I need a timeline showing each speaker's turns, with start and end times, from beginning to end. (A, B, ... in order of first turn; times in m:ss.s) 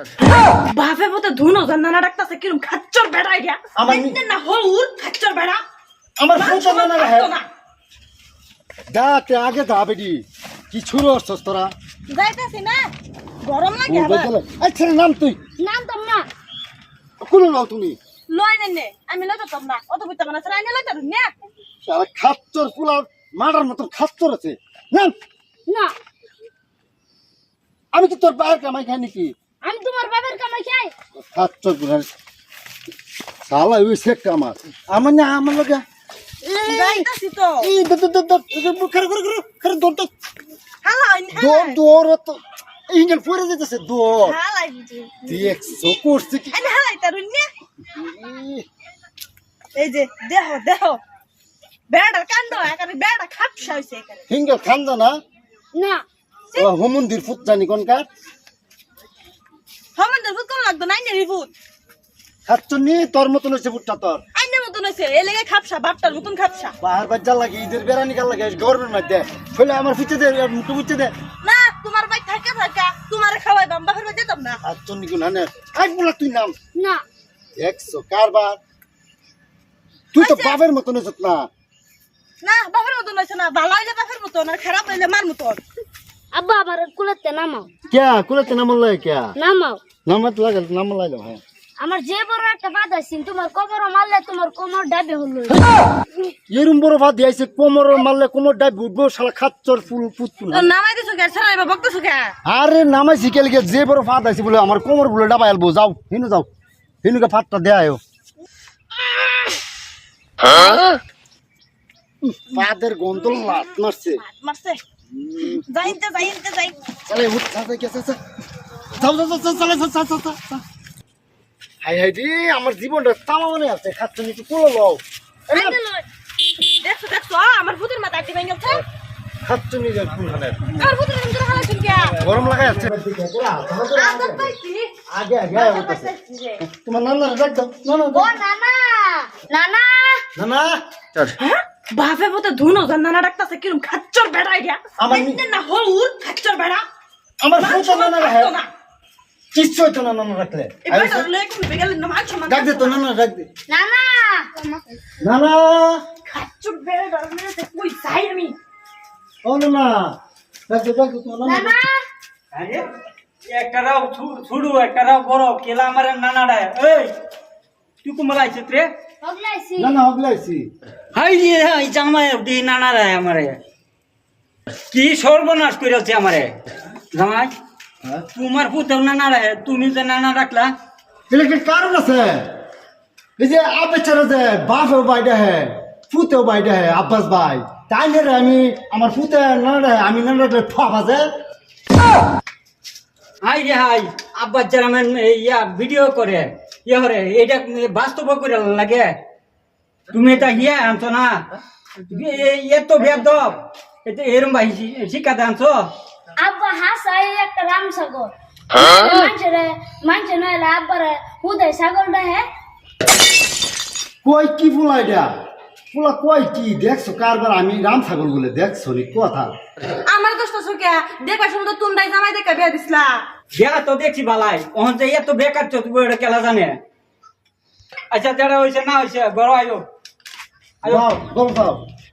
0:00.2-0:05.6 A
0:03.8-0:04.2 B
0:06.2-0:07.3 B
0:06.3-0:07.4 A
0:08.9-0:11.7 B
0:12.1-0:12.9 A
0:13.4-0:14.3 A
0:13.9-0:15.4 B
0:15.6-0:16.2 C
0:17.2-0:18.0 B
0:18.3-0:21.3 A
0:21.8-0:25.1 B
0:25.7-0:25.9 C
0:27.9-0:29.3 B
0:29.7-0:30.9 C
0:31.2-0:32.1 B
0:33.4-0:35.8 B
0:36.4-0:37.7 A
0:36.6-0:37.1 B
0:37.6-0:40.1 B
0:40.8-0:41.8 A
0:41.3-0:44.4 B
0:44.2-0:45.5 A
0:45.3-0:46.6 B
0:46.5-0:47.5 A
0:47.9-0:48.6 B
0:49.8-0:51.0 A
0:51.9-0:54.2 A
0:54.3-0:55.2 B
0:55.7-0:56.0 C
0:56.6-0:58.0 B
1:00.0-1:01.5 A
1:02.4-1:04.2 B
1:04.3-1:06.7 A
1:06.8-1:11.1 B
1:11.4-1:14.6 A
1:14.6-1:16.5 B
1:16.8-1:17.0 C
1:17.6-1:18.6 B
1:20.1-1:21.5 B
1:20.1-1:20.6 A
1:22.4-1:25.6 A
1:26.3-1:27.7 C
1:27.9-1:29.3 B
1:29.4-1:29.8 C
1:30.0-1:31.4 B
1:31.8-1:35.6 C
1:36.5-1:40.7 B
1:40.5-1:42.3 A
1:42.4-1:46.5 B
1:47.0-1:48.0 B
1:52.2-1:54.2 B
1:53.2-1:54.8 A
1:55.1-1:55.9 B
1:55.5-1:56.7 A
1:57.1-1:58.2 B
1:59.0-2:00.6 B
2:01.8-2:05.0 B
2:05.5-2:05.8 A
2:05.5-2:06.0 C
2:06.7-2:08.8 A
2:09.4-2:10.9 B
2:10.8-2:12.2 A
2:12.2-2:14.5 B
2:13.8-2:14.9 A
2:15.1-2:18.4 B
2:15.5-2:16.6 A
2:18.1-2:20.2 C
2:20.3-2:21.3 B
2:21.4-2:26.8 A
2:25.0-2:25.4 B
2:27.4-2:28.5 B
2:27.6-2:28.7 A
2:29.5-2:31.3 B
2:30.8-2:33.0 A
2:32.5-2:33.5 B
2:33.7-2:34.5 C
2:35.2-2:36.0 B
2:36.3-2:38.5 A
2:39.4-2:40.1 B
2:40.7-2:41.7 B
2:41.4-2:41.9 C
2:42.5-2:42.8 D
2:43.5-2:47.1 D
2:48.0-2:48.9 D
2:49.2-2:50.0 C
2:49.8-2:50.6 B
2:51.1-2:53.6 D
2:54.9-2:56.5 D
2:57.1-2:57.5 D
2:58.3-3:00.7 D
3:01.3-3:02.4 B
3:03.4-3:11.3 B
3:13.4-3:19.1 D
3:20.1-3:21.4 D
3:22.1-3:25.9 D
3:26.4-3:32.4 C
3:34.2-3:35.3 B
3:35.9-3:39.5 B
3:40.0-3:43.2 A
3:43.5-3:46.8 D
3:48.1-3:49.8 D
3:50.8-3:51.8 B